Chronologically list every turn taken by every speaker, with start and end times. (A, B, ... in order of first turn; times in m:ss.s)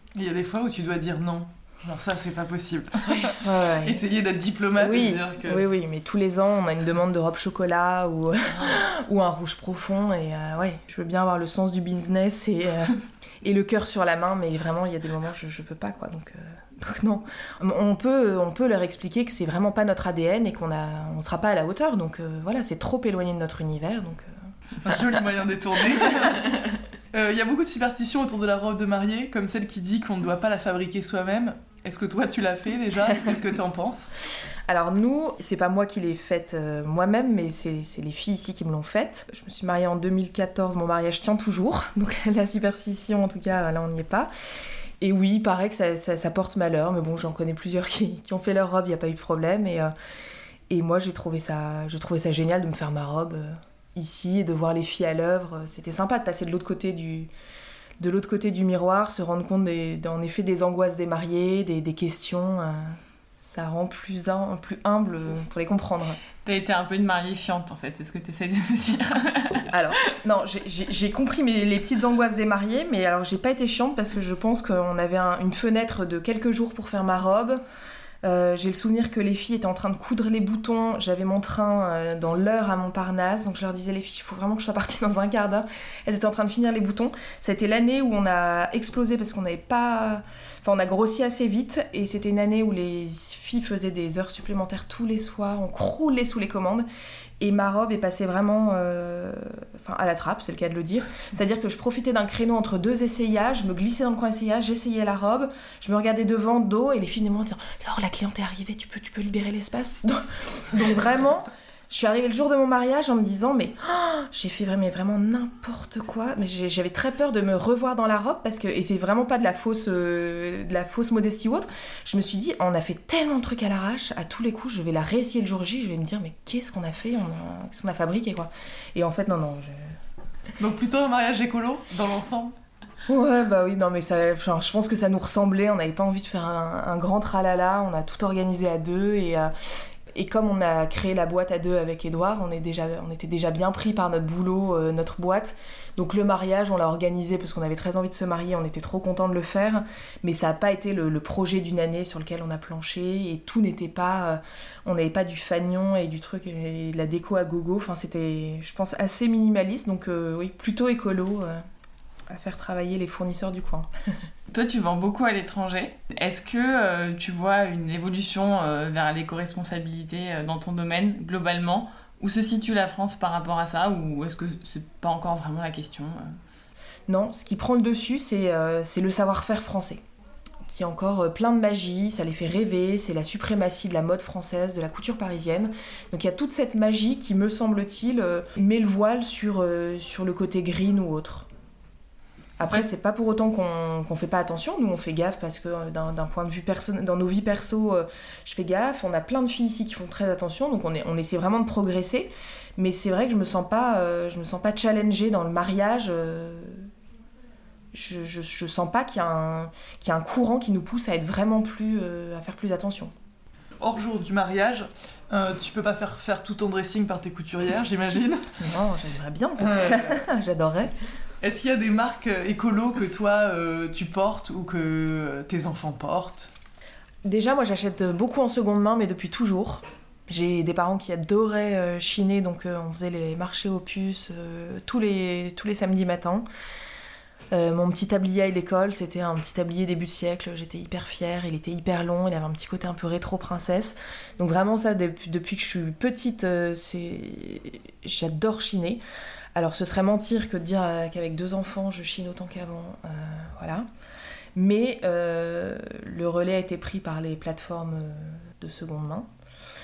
0:00.2-0:05.7 A
0:03.1-0:04.0 B
0:04.8-0:24.3 B
0:24.8-0:34.1 A
0:34.7-0:44.3 B
0:45.0-0:49.9 B
0:50.7-0:57.3 B
0:58.0-1:06.2 B
1:06.4-1:10.1 C
1:09.7-1:17.6 B
1:18.2-1:36.9 B
1:37.4-2:10.0 B
2:10.6-2:12.5 A
2:13.1-2:19.5 B
2:20.1-2:41.6 B
2:42.3-2:43.9 B
2:44.5-2:56.4 C
2:57.1-3:00.0 B
3:00.7-3:11.5 B
3:12.6-3:26.9 B
3:27.9-3:33.1 B
3:33.8-3:38.6 A
3:38.6-3:40.9 B
3:39.6-3:40.2 A
3:41.4-3:46.5 A
3:47.2-3:56.4 B
3:57.5-4:09.0 B
4:09.6-4:13.9 B
4:14.6-4:19.3 B